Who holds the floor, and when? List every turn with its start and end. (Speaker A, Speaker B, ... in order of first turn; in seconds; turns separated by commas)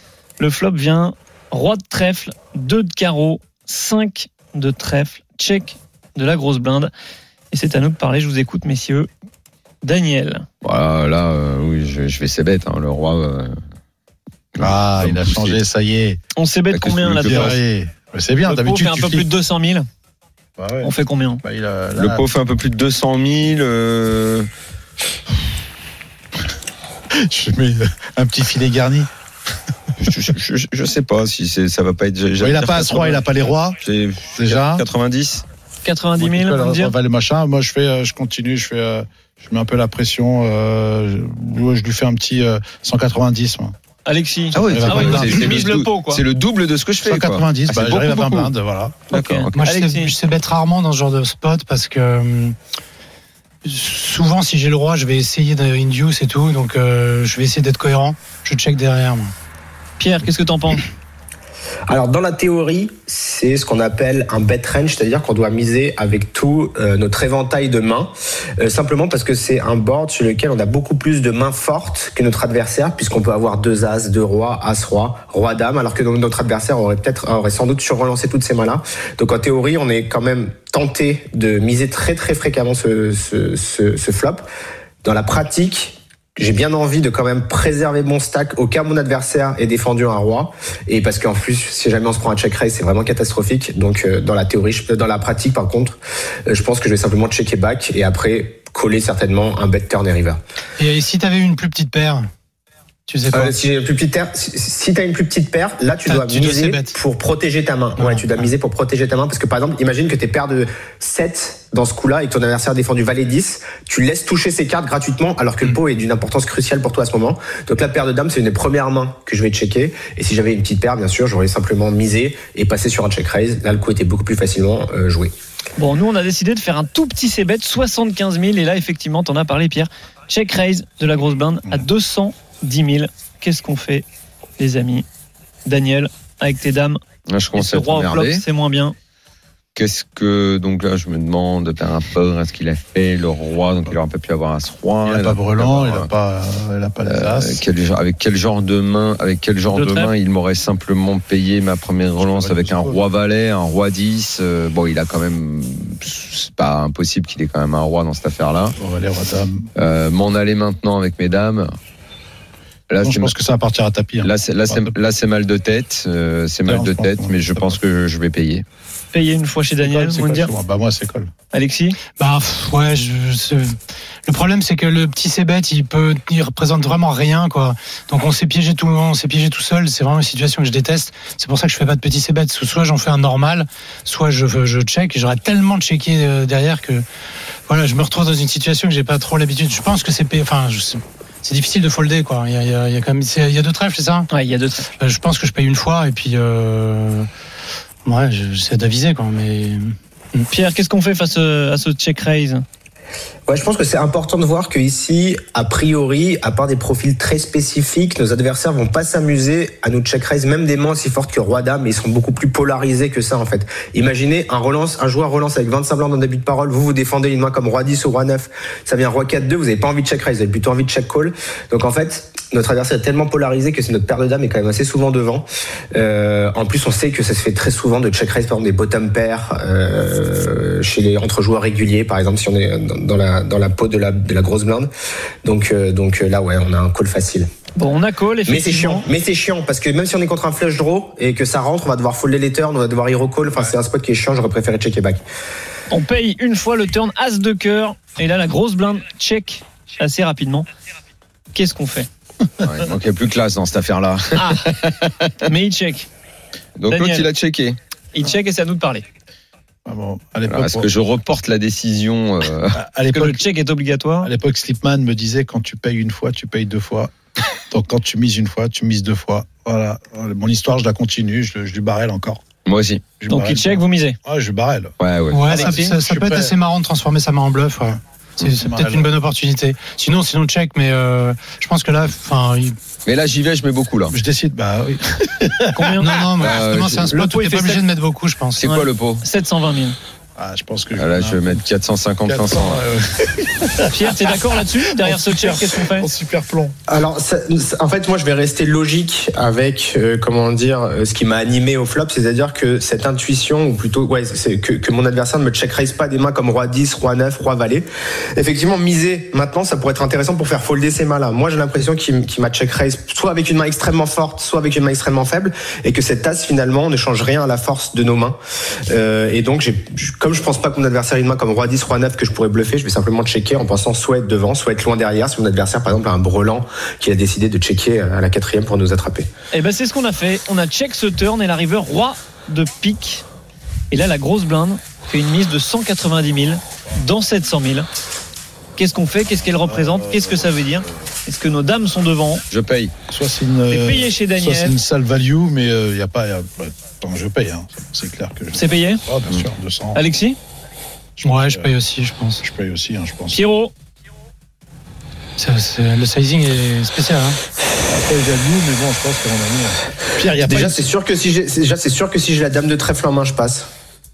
Speaker A: 0.4-6.9, Speaker A: 7.5-9.1, Speaker A: 9.8-10.5, Speaker B: 10.6-13.6, Speaker B: 14.6-15.6, Speaker C: 14.6-16.2, Speaker A: 16.4-17.6, Speaker B: 16.7-17.6, Speaker C: 17.2-19.3, Speaker A: 18.4-19.9, Speaker C: 20.6-22.2, Speaker A: 20.8-21.4, Speaker B: 22.0-24.5, Speaker C: 27.1-29.1, Speaker B: 30.0-33.3, Speaker C: 32.4-33.8, Speaker B: 33.8-35.5, Speaker C: 34.4-34.9, Speaker A: 35.9-36.9, Speaker C: 36.2-43.8, Speaker A: 44.1-46.2, Speaker B: 44.5-48.5, Speaker C: 44.6-45.6, Speaker C: 47.0-49.1, Speaker A: 49.1-50.1, Speaker B: 49.1-49.6, Speaker D: 49.6-52.6, Speaker D: 53.6-59.3, Speaker A: 60.0-60.9, Speaker E: 61.9-84.5, Speaker E: 85.0-100.4, Speaker D: 100.8-102.3, Speaker D: 103.1-103.5, Speaker E: 103.3-125.3, Speaker D: 106.1-107.0, Speaker D: 108.0-108.5, Speaker A: 125.8-134.1, Speaker A: 134.6-135.1, Speaker A: 135.7-137.0, Speaker B: 137.3-138.4, Speaker A: 137.6-139.0, Speaker B: 139.8-146.1, Speaker C: 145.1-147.6, Speaker B: 147.1-158.8, Speaker A: 149.7-150.1, Speaker C: 152.2-153.0, Speaker C: 158.8-159.7, Speaker B: 159.8-161.7, Speaker B: 162.9-163.3, Speaker C: 163.0-164.9, Speaker B: 164.2-168.7, Speaker C: 166.7-167.8, Speaker A: 169.1-170.5, Speaker C: 169.8-171.3, Speaker A: 171.5-172.0, Speaker D: 172.2-173.8, Speaker D: 174.3-187.1, Speaker D: 187.7-194.3, Speaker A: 194.3-194.9, Speaker D: 195.0-197.3, Speaker D: 198.1-200.5, Speaker A: 200.5-202.7, Speaker E: 203.5-234.9, Speaker E: 235.4-237.5, Speaker A: 237.8-239.1, Speaker E: 238.5-245.2, Speaker A: 245.9-250.7, Speaker A: 251.5-252.1, Speaker B: 252.6-255.3, Speaker A: 254.4-254.7, Speaker A: 255.5-256.1, Speaker B: 256.8-257.8, Speaker A: 256.9-257.3, Speaker A: 258.1-259.1, Speaker C: 259.9-260.9, Speaker B: 260.5-262.8, Speaker C: 262.7-263.4, Speaker A: 263.1-264.3, Speaker C: 264.2-267.1, Speaker C: 267.7-272.4, Speaker B: 272.6-273.1, Speaker C: 273.2-274.9, Speaker A: 273.3-274.2, Speaker B: 275.0-275.7, Speaker D: 275.3-282.8, Speaker A: 275.5-275.9, Speaker C: 275.5-276.5, Speaker C: 278.6-279.1, Speaker B: 283.1-284.2, Speaker C: 284.1-286.0, Speaker A: 285.7-286.5, Speaker D: 286.0-288.7, Speaker B: 286.4-287.1, Speaker A: 287.1-287.8, Speaker B: 288.6-289.2, Speaker A: 288.7-290.0, Speaker C: 290.4-291.6, Speaker B: 291.0-292.8, Speaker C: 292.3-294.2, Speaker A: 293.9-296.1, Speaker C: 294.8-296.8, Speaker E: 296.9-307.9, Speaker E: 308.4-318.4, Speaker E: 318.9-329.3, Speaker A: 329.5-333.2, Speaker A: 333.9-337.9, Speaker A: 338.8-342.4, Speaker C: 339.7-340.4, Speaker B: 342.5-342.9, Speaker C: 343.1-350.0, Speaker A: 343.7-344.8, Speaker A: 348.6-349.0, Speaker A: 349.9-350.4, Speaker C: 351.2-351.7, Speaker D: 351.2-352.4, Speaker C: 352.4-353.4, Speaker A: 353.3-353.7, Speaker D: 355.4-357.4, Speaker C: 357.9-360.9, Speaker E: 360.4-363.7